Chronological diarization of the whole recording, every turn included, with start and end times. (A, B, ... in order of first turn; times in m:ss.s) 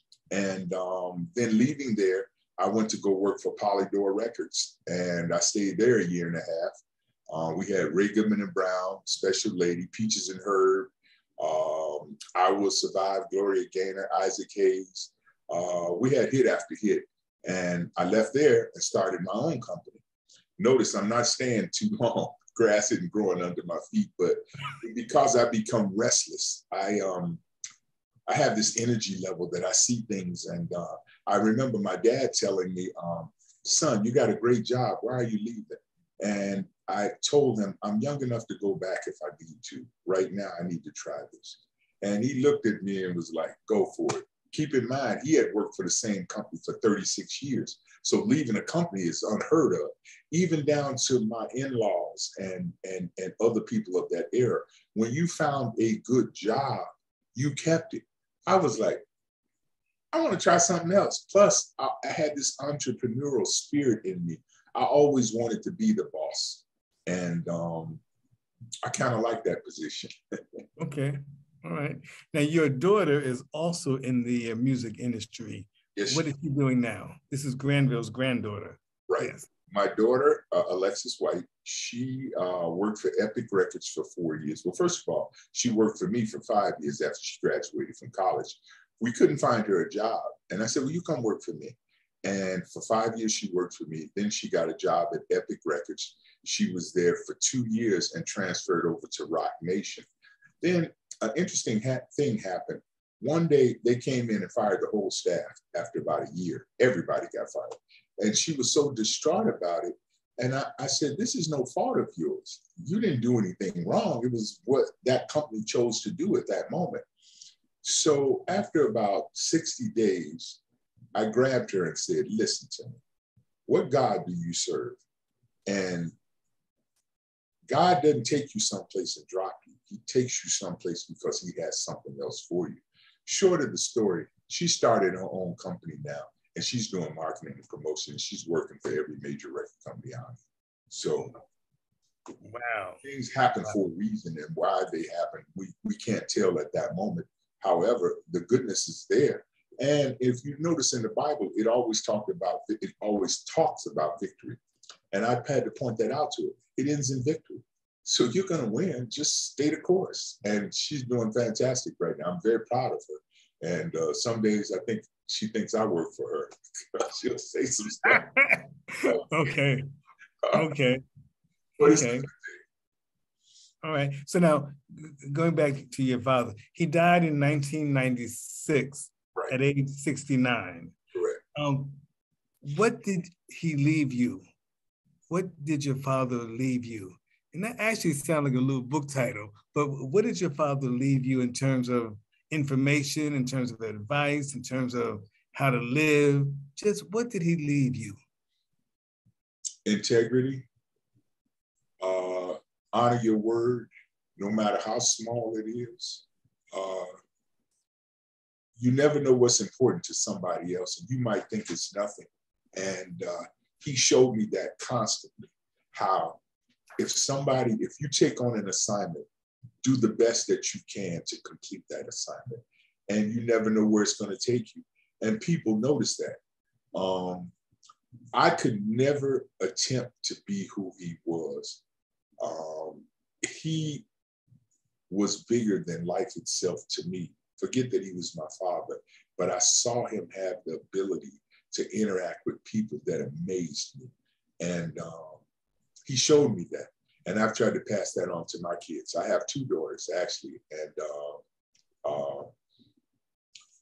0:00.3-0:06.8 A
0:07.3-0:20.0 A
0:20.6-0:27.4 A
0:28.3-0:59.0 A
1:00.1-1:08.0 A
1:08.8-1:10.6 A
1:10.8-1:19.5 B
1:16.0-1:16.2 A
1:19.1-1:40.1 A
1:40.6-1:57.0 A
1:57.8-2:00.6 A
2:01.1-2:03.0 A
2:03.7-2:05.0 A
2:05.6-2:06.1 A
2:07.7-2:21.3 A
2:22.4-2:23.0 B
2:23.0-2:34.6 A
2:35.1-2:48.4 A
2:48.0-2:49.8 B
2:49.0-2:49.5 A
2:50.5-2:51.0 B
2:51.8-2:52.3 B
2:51.8-2:52.5 A
2:53.8-3:00.9 B
3:01.1-3:01.4 A
3:01.6-3:02.0 B
3:02.6-3:04.4 B
3:05.3-3:18.2 B
3:19.8-3:20.7 A
3:22.0-3:27.1 A
3:28.8-3:36.4 A
3:37.0-3:39.3 A
3:39.8-3:46.4 A
3:46.9-3:47.5 A
3:48.3-3:51.8 A
3:52.4-3:54.0 A
3:55.1-4:05.4 A
4:06.1-4:11.4 A
4:12.0-4:12.5 A